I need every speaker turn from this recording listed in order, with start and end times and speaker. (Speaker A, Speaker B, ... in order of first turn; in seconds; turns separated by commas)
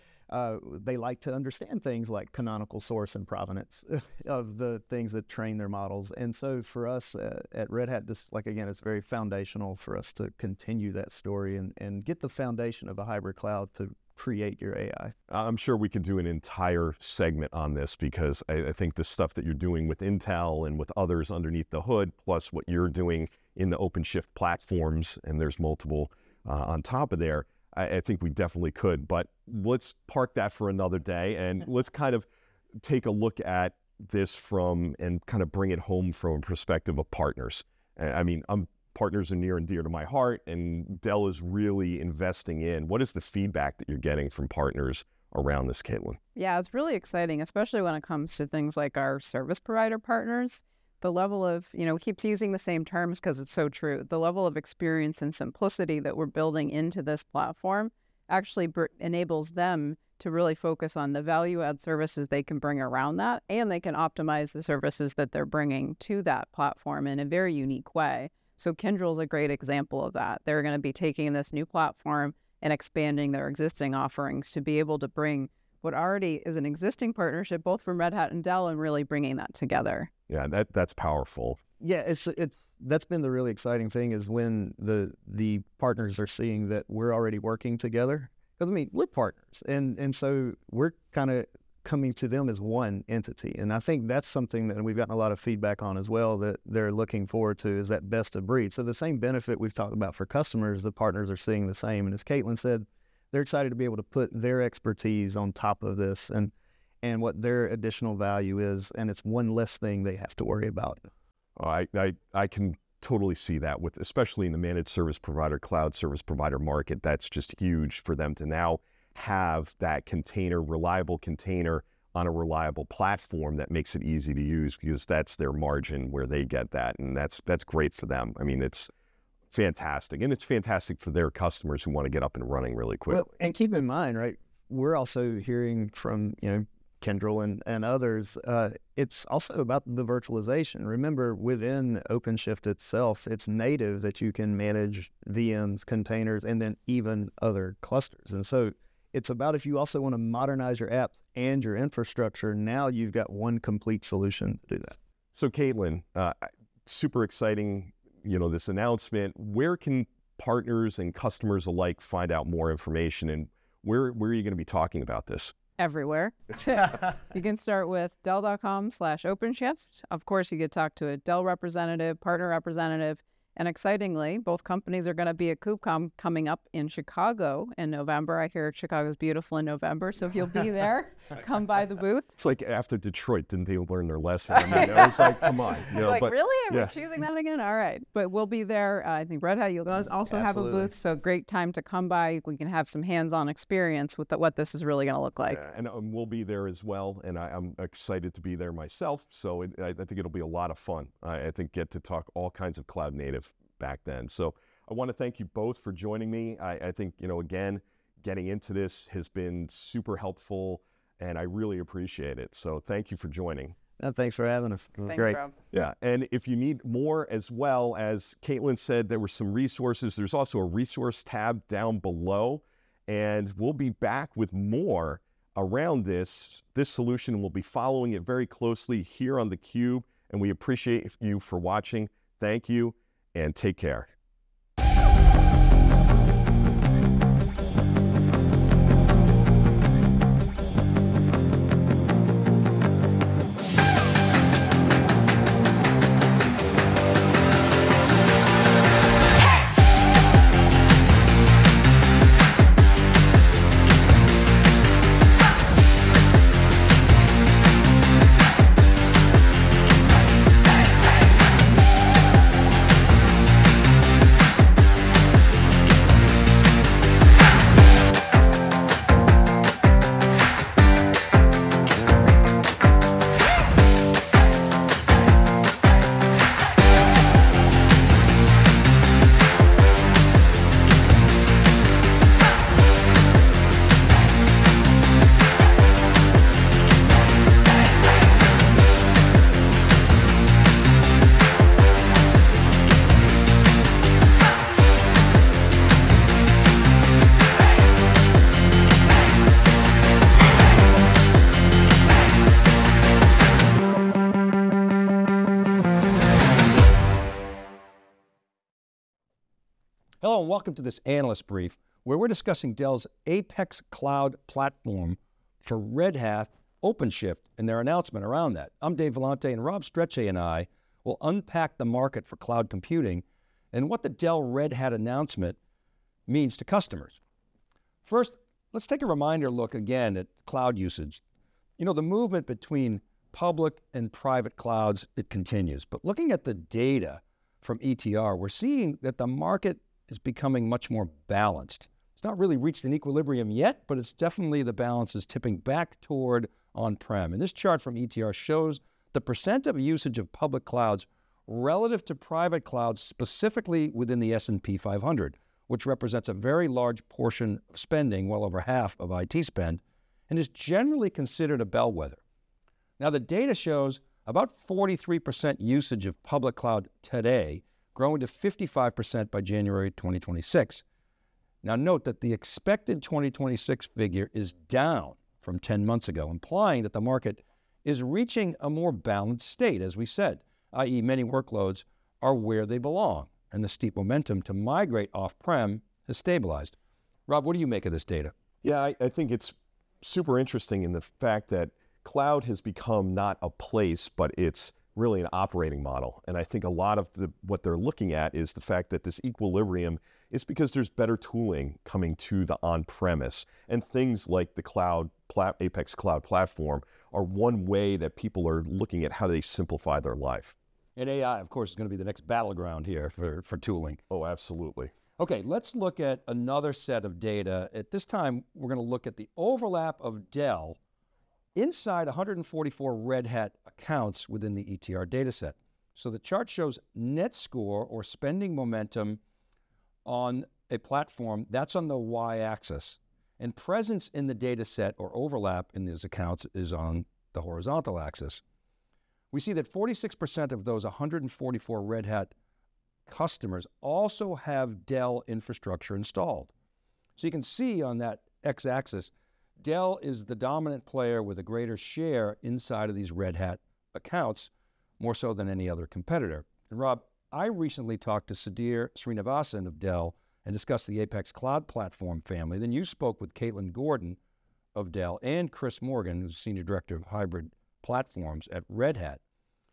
Speaker A: 0.3-15.1, Speaker B: 15.3-32.3, Speaker B: 32.8-46.2, Speaker C: 46.3-80.1, Speaker B: 80.3-81.6, Speaker A: 81.8-111.0, Speaker B: 111.6-128.9, Speaker B: 129.5-133.2, Speaker A: 133.1-155.0, Speaker B: 155.3-165.5, Speaker C: 165.8-182.3, Speaker B: 182.4-186.9, Speaker C: 184.6-185.4, Speaker C: 185.9-195.6, Speaker A: 190.3-190.9, Speaker B: 195.5-213.8, Speaker A: 214.0-215.4, Speaker C: 215.1-215.5, Speaker B: 215.7-234.1, Speaker D: 310.2-325.6, Speaker D: 326.3-327.2, Speaker D: 328.0-331.2, Speaker D: 331.8-362.2, Speaker D: 363.0-370.8, Speaker D: 371.6-386.8, Speaker D: 387.3-388.3, Speaker B: 388.6-410.6, Speaker D: 410.9-414.0, Speaker B: 414.1-414.9, Speaker D: 415.2-420.8, Speaker D: 421.5-429.2, Speaker D: 430.0-438.4, Speaker D: 439.3-442.3, Speaker D: 443.1-446.5, Speaker D: 447.2-464.2, Speaker D: 464.7-469.2